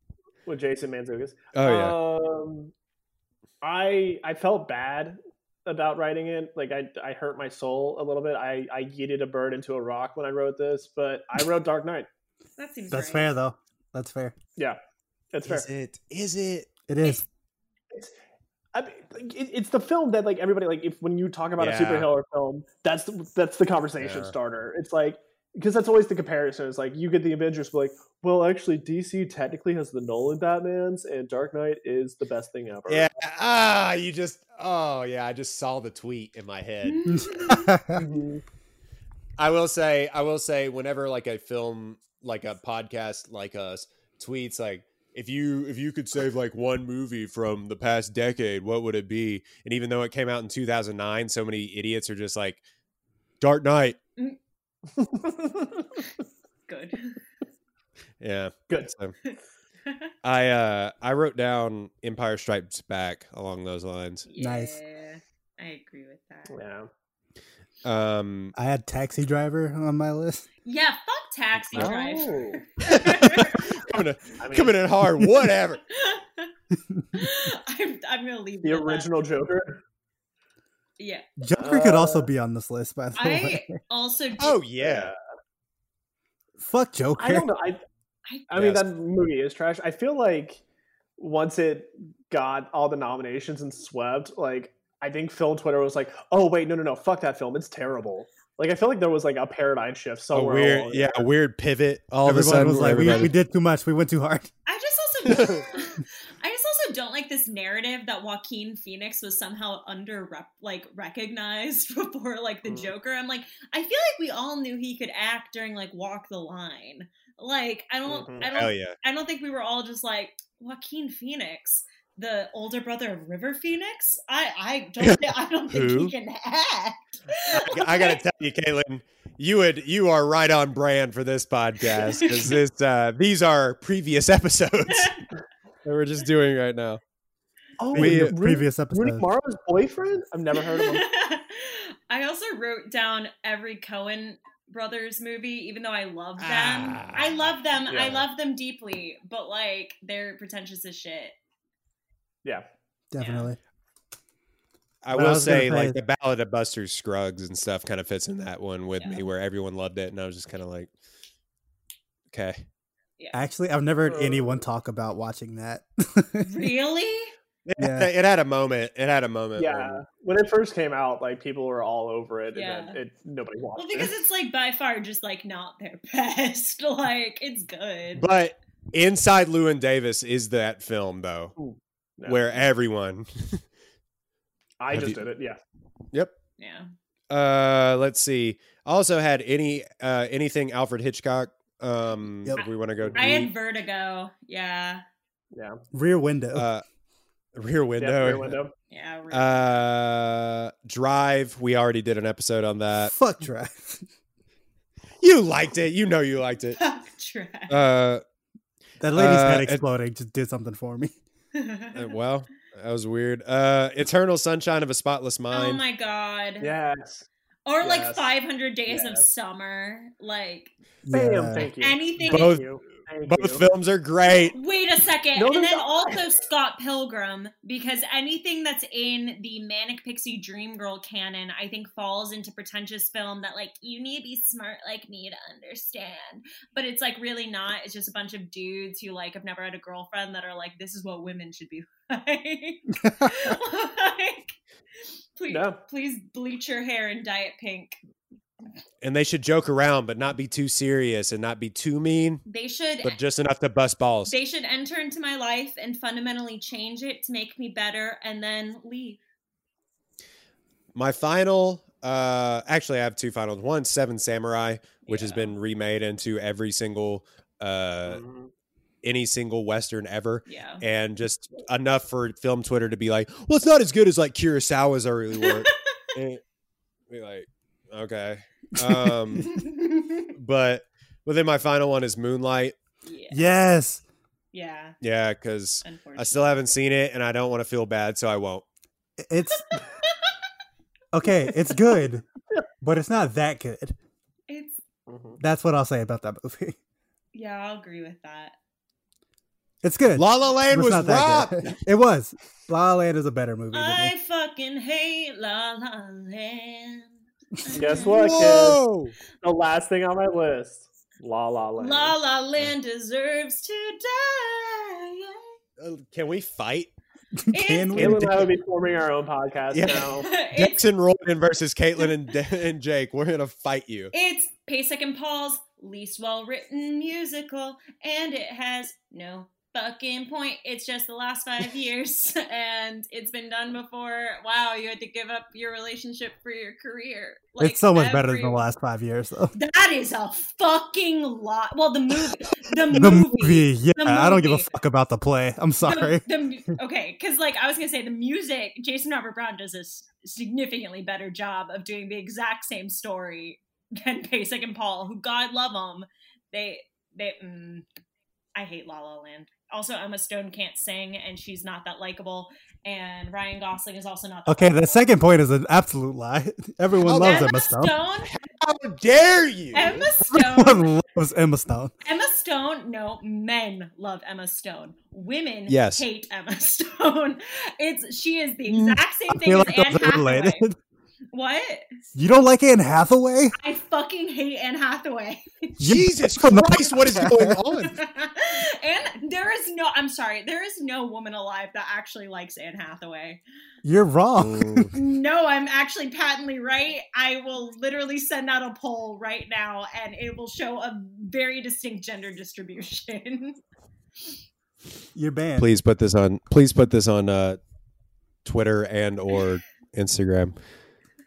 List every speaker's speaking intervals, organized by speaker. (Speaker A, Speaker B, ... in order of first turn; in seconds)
Speaker A: 0.5-2.7, 3.6-12.1, 15.3-15.7, 18.7-33.1, 37.9-38.4, 55.0-55.9, 66.5-66.9, 71.7-72.6, 74.4-74.7, 78.6-79.8, 81.5-82.3, 84.8-85.2, 87.2-87.8, 88.5-90.6, 91.2-101.2, 112.7-112.9, 118.1-118.5, 137.8-141.0, 147.9-148.2, 164.1-164.6, 169.6-174.1, 181.6-182.6, 184.8-185.6, 193.0-193.4, 195.5-195.8, 198.0-198.7, 216.6-217.2, 217.8-218.3, 218.9-219.2, 221.1-223.6, 225.3-226.2, 245.5-245.8, 268.1-268.5, 295.1-295.4, 307.7-308.8, 309.4-312.1, 317.9-320.3
Speaker B: 1.5-2.0, 15.4-16.7, 21.6-22.1, 24.0-24.3, 32.9-37.0, 39.4-52.6, 53.4-54.0, 58.2-59.1, 60.2-64.2, 67.8-68.5, 72.8-75.8, 84.4-85.1, 88.5-88.9, 100.3-103.3, 118.5-119.0, 125.0-126.1, 127.5-135.2, 135.8-137.0, 137.9-138.3, 146.4-147.4, 155.0-160.9, 162.3-162.6, 167.7-170.0, 178.2-181.5, 182.2-183.6, 184.9-185.2, 187.3-193.5, 196.5-196.8, 197.5-198.6, 199.3-203.1, 205.2-206.8, 207.7-208.2, 209.1-209.8, 211.9-215.8, 222.2-222.6, 223.2-224.5, 249.0-252.4, 253.0-254.3, 260.9-268.2, 269.0-276.4, 277.1-279.6, 280.3-282.7, 285.0-288.6, 300.1-301.8, 308.0-309.1, 315.8-316.9, 319.7-324.1, 367.1-367.5, 368.3-370.0, 375.7-376.0, 385.8-388.0, 394.4-394.9, 405.6-407.6, 408.4-410.6
Speaker C: 12.6-13.3, 36.9-37.7, 56.7-57.2, 59.3-60.1, 64.2-66.6, 70.7-73.7, 75.9-76.5, 77.2-79.1, 81.0-81.3, 83.2-84.6, 104.7-128.2, 132.0-132.6, 140.7-151.3, 153.2-153.5, 159.0-159.3, 166.4-167.3, 172.5-173.0, 173.8-178.3, 186.6-186.9, 192.6-195.0, 198.9-199.8, 206.8-207.8, 211.5-212.0, 215.5-216.7, 217.7-220.7, 221.5-222.5, 224.5-244.5, 245.3-248.0, 252.4-253.2, 254.3-259.2, 265.1-265.5, 270.5-270.8, 275.4-276.0, 279.8-280.1, 283.0-283.4, 284.5-285.0, 285.8-286.6, 289.5-290.3, 294.5-294.8, 297.3-298.5, 303.7-308.4, 311.8-315.4, 317.5-318.2, 320.2-320.9, 324.1-338.6, 339.5-344.7, 345.8-357.9, 358.5-364.9, 367.2-368.3, 369.7-370.9, 372.0-380.6, 381.3-381.8, 383.6-385.7, 387.9-393.4, 394.9-403.6
Speaker D: 12.9-14.3, 16.9-17.2, 37.1-38.0, 64.4-64.8, 68.5-70.5, 76.7-77.0, 81.4-83.7, 86.6-87.5, 102.2-104.5, 137.9-139.2, 153.1-153.6, 155.1-156.0, 163.3-166.5, 167.8-168.1, 195.9-196.7, 203.0-204.1, 209.0-211.2, 221.0-221.7, 243.0-243.5, 278.8-279.4, 283.3-284.0, 289.2-289.8, 291.1-292.2, 292.8-293.9, 295.4-296.8, 299.8-304.1, 317.4-318.5, 337.6-339.5, 342.9-346.3, 364.5-367.9, 370.3-371.9, 379.3-380.8, 382.1-383.5, 385.8-387.6, 393.8-394.9, 405.1-405.7